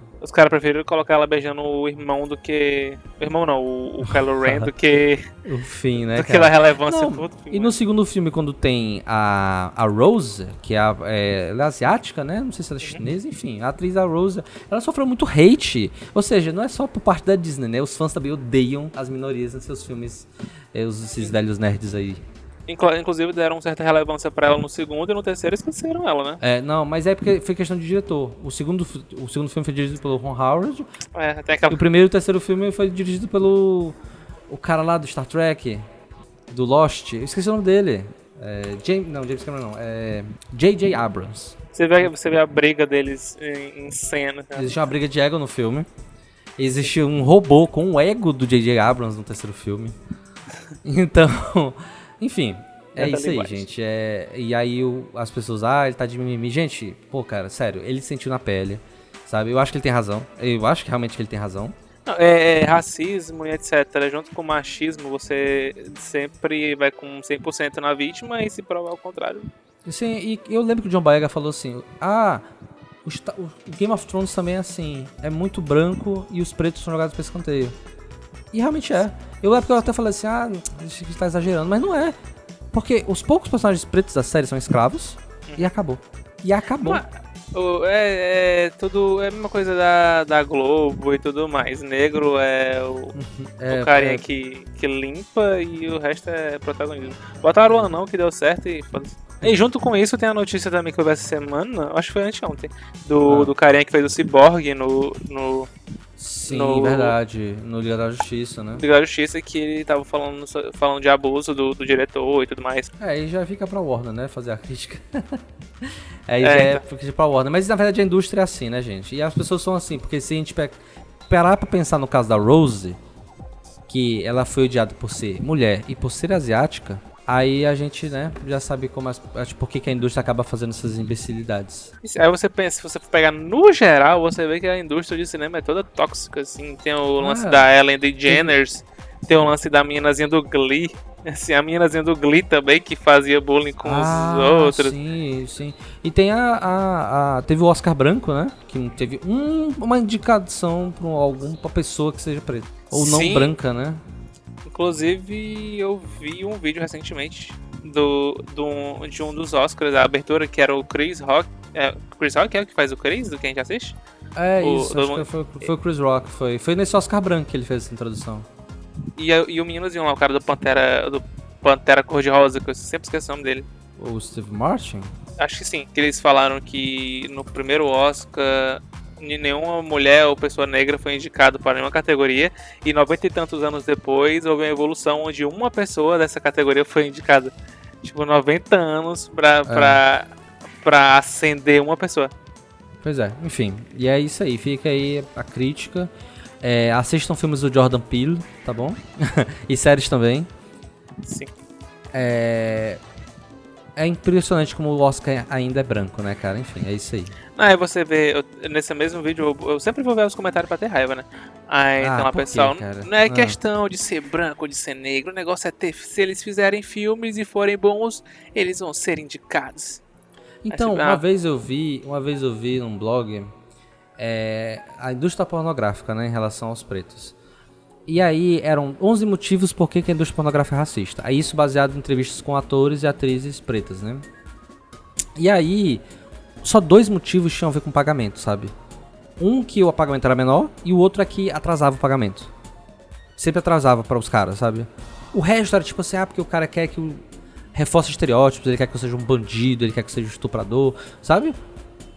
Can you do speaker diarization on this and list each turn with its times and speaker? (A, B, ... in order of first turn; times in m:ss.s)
0:00.2-0:05.3 A
0:04.1-0:04.7 B
0:05.4-0:22.2 B
0:06.1-0:07.7 A
0:22.7-0:26.4 A
0:26.4-0:30.8 B
0:31.1-0:31.8 A
0:31.7-0:34.0 B
0:34.5-0:35.8 B
0:36.5-0:41.6 B
0:41.7-0:44.8 A
0:44.5-0:45.9 B
0:46.6-0:50.0 B
0:50.8-1:01.7 B
0:53.0-0:53.7 A
1:02.1-1:09.5 A
1:09.8-1:12.4 B
1:13.0-1:17.8 B
1:18.5-1:22.1 B
1:22.7-1:27.0 B
1:26.8-1:33.1 A
1:33.1-1:34.2 B
1:33.7-1:45.7 A
1:43.3-1:43.5 B
1:46.2-1:48.8 B
1:46.5-1:47.1 A
1:48.8-1:52.9 A
1:53.0-2:03.0 B
1:56.4-1:56.8 A
2:03.9-2:11.9 B
2:12.0-2:25.0 A
2:17.2-2:17.6 B
2:18.3-2:18.5 B
2:23.8-2:34.0 B
2:32.9-2:33.5 A
2:34.7-2:44.0 A
2:44.4-2:48.5 B
2:44.6-2:45.3 A
2:49.2-2:53.7 A
2:54.0-2:55.1 B
2:55.4-3:10.3 A
3:09.7-3:10.0 B
3:10.8-3:12.3 A
3:13.0-3:20.5 B
3:21.2-3:21.5 A
3:22.1-3:23.0 B
3:24.0-3:27.3 B
3:27.6-3:40.0 A
3:32.0-3:33.6 B
3:40.6-3:43.5 B
3:40.7-3:41.2 A
3:44.2-3:47.4 B
3:48.1-3:54.2 B
3:55.4-3:56.0 B
3:56.6-3:58.7 B
3:59.4-4:02.5 B
4:03.4-4:07.2 B
4:07.7-4:11.6 B